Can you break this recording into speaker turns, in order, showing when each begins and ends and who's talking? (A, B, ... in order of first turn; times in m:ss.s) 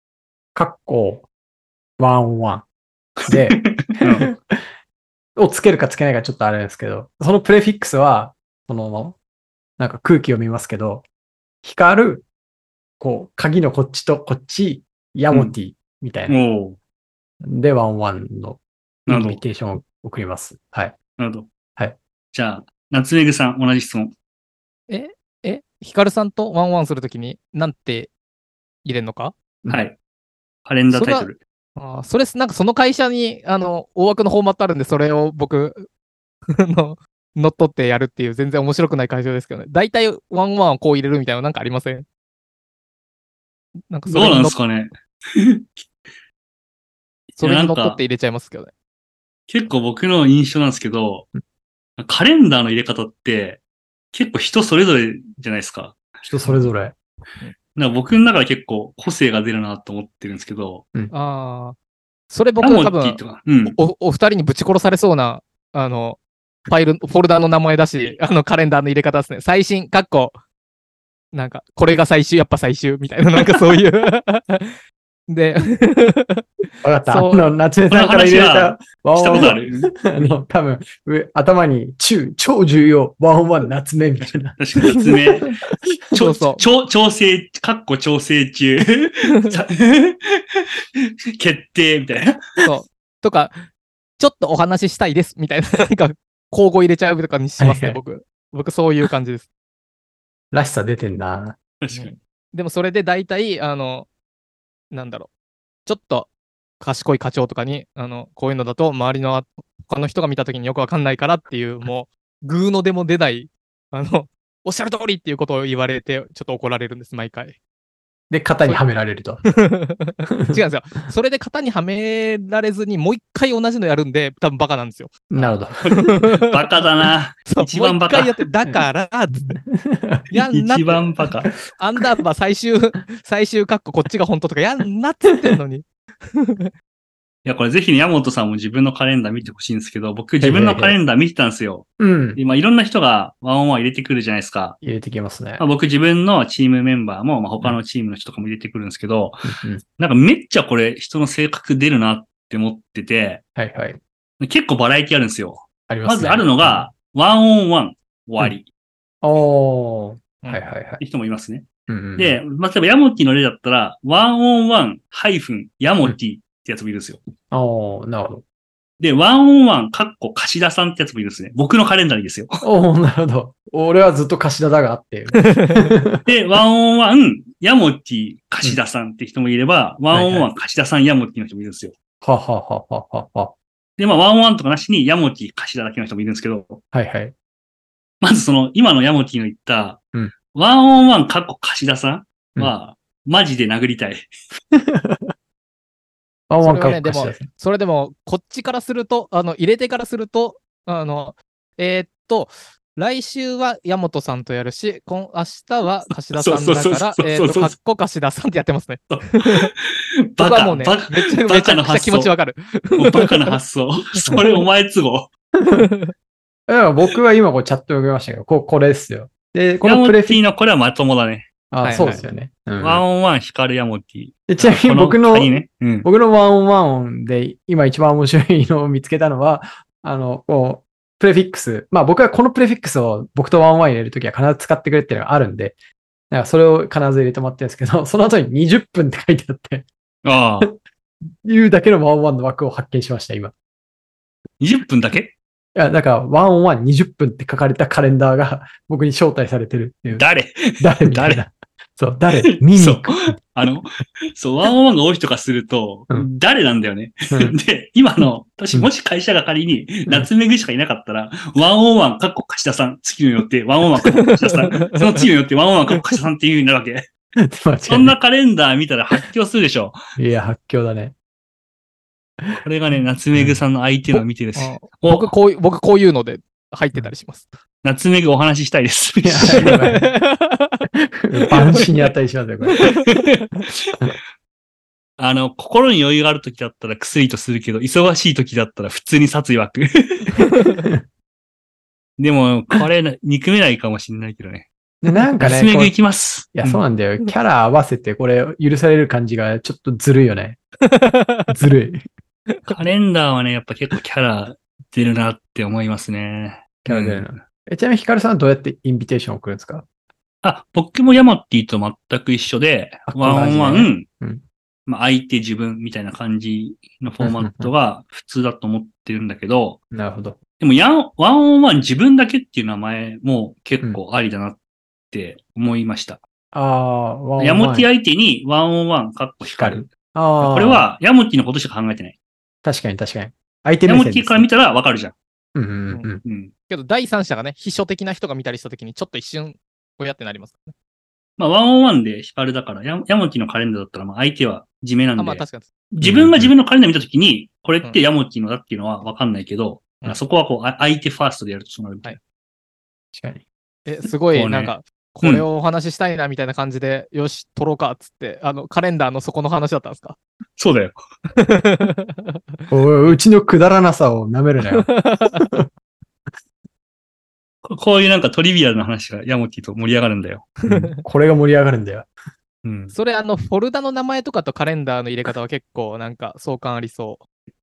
0:00.5-0:01.3 A
0:02.0-0:02.6 A
0:03.2-0:04.2 B
0:03.3-0:04.6 A
0:05.4-0:09.2 A
0:09.8-0:11.0 A
0:11.6-0:12.3 A
0:13.0-0:16.4 A
0:16.3-0:16.8 B
0:17.4-0:21.0 A
0:19.1-0:19.4 B
0:21.2-0:21.5 B
0:22.3-0:24.1 B
0:24.9-0:28.1 C
0:28.8-0:29.3 C
0:29.7-0:29.9 B
0:30.6-0:31.4 B
0:30.9-0:35.9 C
0:36.5-0:42.0 C
0:43.9-0:44.6 C
0:44.1-0:45.9 B
0:47.3-0:48.7 C
0:47.4-0:48.0 B
0:49.5-0:51.3 B
0:52.0-0:53.6 B
0:54.1-0:56.0 B
0:56.2-0:56.9 A
0:57.7-1:00.8 B
1:01.1-1:01.8 C
1:02.3-1:10.4 C
1:02.6-1:03.8 B
1:11.3-1:14.7 C
1:15.3-1:17.5 C
1:16.8-1:25.5 A
1:17.9-1:20.0 B
1:24.5-1:25.5 B
1:26.1-1:30.6 B
1:26.1-1:26.6 C
1:29.3-1:29.6 C
1:31.4-1:32.4 B
1:32.6-1:39.5 C
1:37.6-1:38.0 A
1:40.5-1:41.6 A
1:41.8-1:42.1 B
1:41.9-1:44.1 C
1:44.9-1:45.3 C
1:45.8-1:57.6 C
1:58.3-1:59.4 A
1:59.6-2:06.4 C
2:00.3-2:00.6 A
2:05.3-2:06.0 A
2:06.4-2:08.4 B
2:07.5-2:09.6 C
2:08.7-2:10.3 A
2:10.3-2:11.2 C
2:10.5-2:11.5 B
2:11.8-2:16.7 C
2:17.4-2:24.8 B
2:20.4-2:21.0 A
2:22.0-2:22.4 A
2:24.8-2:25.6 A
2:25.6-2:29.4 B
2:29.4-2:29.8 A
2:30.0-2:33.4 B
2:33.6-2:34.0 A
2:34.4-2:38.7 B
2:35.9-2:36.9 A
2:39.2-2:41.0 A
2:41.0-2:41.6 B
2:41.9-2:42.4 A
2:42.2-2:47.2 B
2:47.5-2:48.4 A
2:49.0-2:52.6 B
2:52.6-2:56.3 A
2:55.4-2:55.8 C
2:56.2-3:01.9 B
3:00.1-3:00.5 A
3:02.2-3:03.5 A
3:04.0-3:06.8 B
3:06.9-3:07.3 A
3:08.2-3:10.0 B
3:10.5-3:14.3 B
3:14.7-3:15.3 A
3:16.5-3:17.5 A
3:16.6-3:29.7 C
3:26.3-3:27.7 B
3:29.1-3:29.7 B
3:30.3-3:32.3 B
3:30.4-3:33.5 C
3:33.0-3:35.3 B
3:35.7-3:36.1 C
3:36.7-3:40.4 A
3:39.8-3:41.5 B
3:41.7-3:43.0 A
3:41.8-3:42.2 C
3:42.8-3:46.1 B
3:44.5-3:55.8 A
3:56.3-3:59.8 A
4:00.2-4:00.7 B
4:01.4-4:03.5 A
4:04.6-4:05.4 B
4:05.7-4:10.2 A
4:10.1-4:11.4 B
4:10.8-4:13.3 A
4:12.6-4:27.1 B
4:24.1-4:25.2 C
4:27.4-4:28.2 A
4:27.9-4:30.0 B
4:30.2-4:31.1 A
4:32.6-4:35.3 B
4:33.3-4:33.6 A
4:34.6-4:37.5 C
4:37.8-4:39.8 B
4:39.2-4:40.1 A
4:39.5-4:40.9 C
4:41.2-4:42.9 A
4:43.8-4:44.1 B
4:45.2-4:50.3 B
4:50.6-4:51.0 A
4:52.2-4:54.7 B
4:55.0-4:55.9 A
4:55.4-4:56.8 B
4:56.5-5:00.6 A
5:00.9-5:01.6 C
5:01.5-5:02.0 A
5:02.5-5:02.8 C
5:02.7-5:07.3 B
5:06.8-5:09.8 A
5:10.4-5:14.1 B
5:13.1-5:14.4 A
5:14.8-5:19.8 B
5:17.2-5:17.7 A
5:19.9-5:20.4 A
5:20.6-5:24.6 B
5:25.1-5:26.2 B
5:26.5-5:27.9 A
5:27.4-5:32.2 B
5:29.4-5:30.9 A
5:32.6-5:34.5 A
5:33.8-5:35.2 B
5:35.5-5:36.2 A
5:36.2-5:36.5 B
5:36.7-5:40.7 C
5:41.4-5:52.2 B
5:45.2-5:45.7 C
5:46.0-5:46.5 A
5:53.1-5:53.4 A
5:53.8-6:00.2 C
5:54.3-5:55.4 B
6:00.6-6:01.0 B
6:01.4-6:02.6 C
6:02.7-6:05.7 A
6:04.6-6:05.5 C
6:07.6-6:10.5 B
6:10.6-6:10.9 C
6:10.7-6:12.1 A
6:12.6-6:12.9 B
6:12.9-6:17.2 C